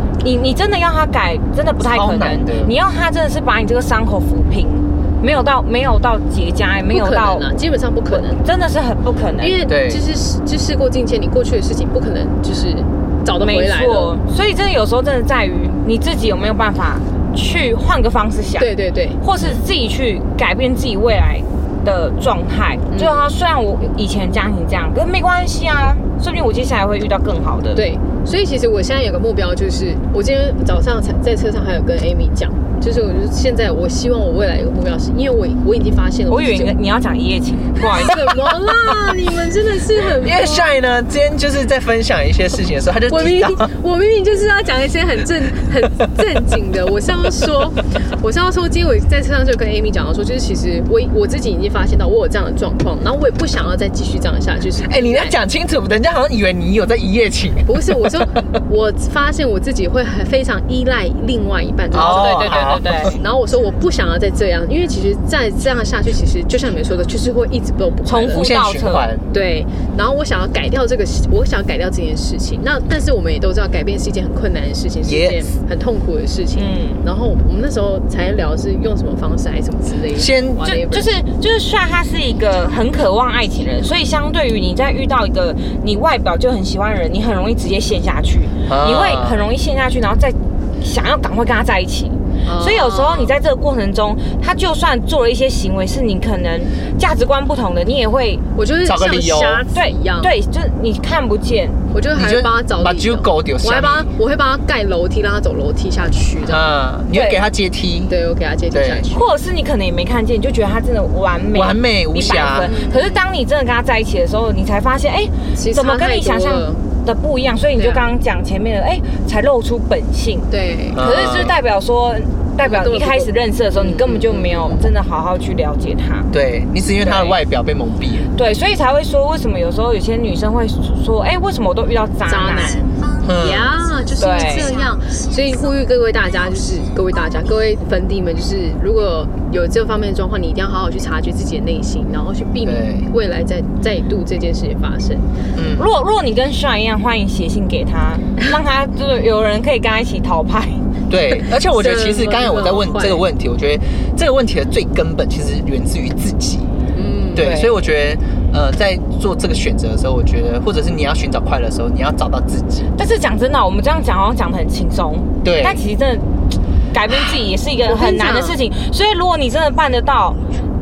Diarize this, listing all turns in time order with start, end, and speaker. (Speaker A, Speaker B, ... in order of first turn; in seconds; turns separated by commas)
Speaker A: 0.2-7.5, Speaker B: 1.8-2.7, Speaker C: 6.9-8.4, Speaker A: 8.1-9.6, Speaker C: 9.4-14.1, Speaker B: 9.7-10.0, Speaker A: 13.4-27.8, Speaker C: 18.6-19.2, Speaker C: 22.9-23.3, Speaker C: 27.7-36.8, Speaker A: 36.3-38.3, Speaker C: 37.9-40.8, Speaker B: 40.0-43.7, Speaker C: 43.1-55.3, Speaker B: 54.8-58.2, Speaker C: 57.6-68.5, Speaker B: 61.9-63.1, Speaker A: 61.9-63.2, Speaker A: 68.0-69.1, Speaker B: 68.3-69.2, Speaker C: 69.3-81.1, Speaker B: 75.0-75.4, Speaker A: 76.5-77.0, Speaker B: 80.1-80.8, Speaker A: 80.7-98.4, Speaker B: 88.7-89.4, Speaker C: 92.4-93.3, Speaker C: 98.5-100.3, Speaker B: 98.8-99.6, Speaker A: 99.7-101.8, Speaker C: 101.9-106.7, Speaker B: 102.1-104.1, Speaker B: 106.5-108.1, Speaker A: 107.1-107.4, Speaker C: 108.1-109.2, Speaker B: 108.7-109.0, Speaker A: 109.1-126.3, Speaker B: 111.5-112.7, Speaker C: 112.4-113.2, Speaker C: 115.5-116.8, Speaker C: 117.8-118.0, Speaker C: 120.5-121.0, Speaker B: 120.9-121.5, Speaker C: 122.6-124.9, Speaker B: 126.3-128.3, Speaker A: 127.0-127.3, Speaker A: 128.3-132.8, Speaker C: 132.3-145.2, Speaker B: 133.2-133.7, Speaker A: 134.2-134.7, Speaker B: 142.6-143.1, Speaker B: 145.5-145.9, Speaker A: 145.8-150.8, Speaker B: 151.1-156.7, Speaker C: 151.6-153.2, Speaker C: 156.9-157.6, Speaker B: 157.3-162.9, Speaker A: 157.4-157.7, Speaker A: 162.9-166.3, Speaker B: 165.4-165.8, Speaker A: 166.9-170.4, Speaker C: 167.8-168.6